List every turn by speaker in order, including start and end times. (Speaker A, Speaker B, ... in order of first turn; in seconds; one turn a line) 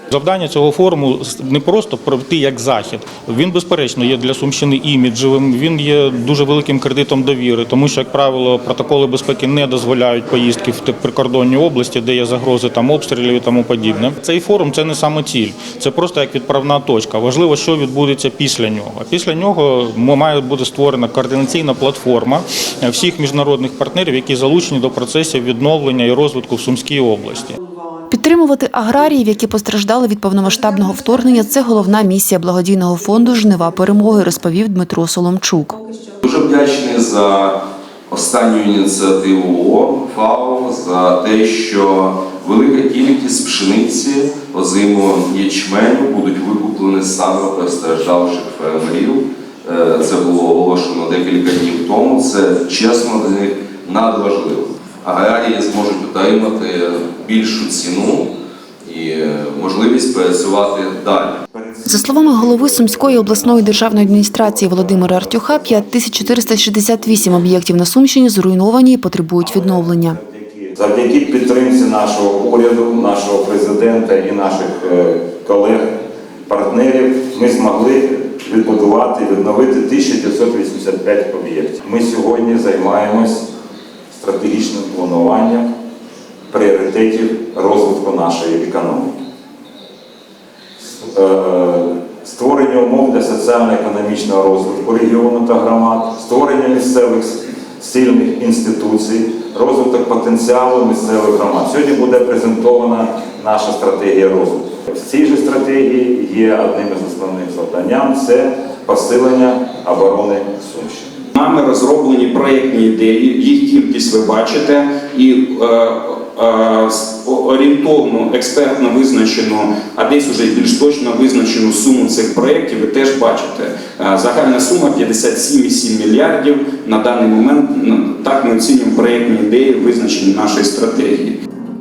Speaker A: 0.1-27.6
Speaker B: 28.1-35.8
Speaker C: 36.2-37.6
Speaker C: 38.1-58.3
Speaker C: 58.8-61.4
Speaker D: 61.5-66.6
Speaker B: 61.8-70.2
Speaker D: 69.4-83.5
Speaker D: 84.1-85.7
Speaker D: 86.5-89.1
Speaker D: 91.0-111.2
Speaker E: 111.3-131.3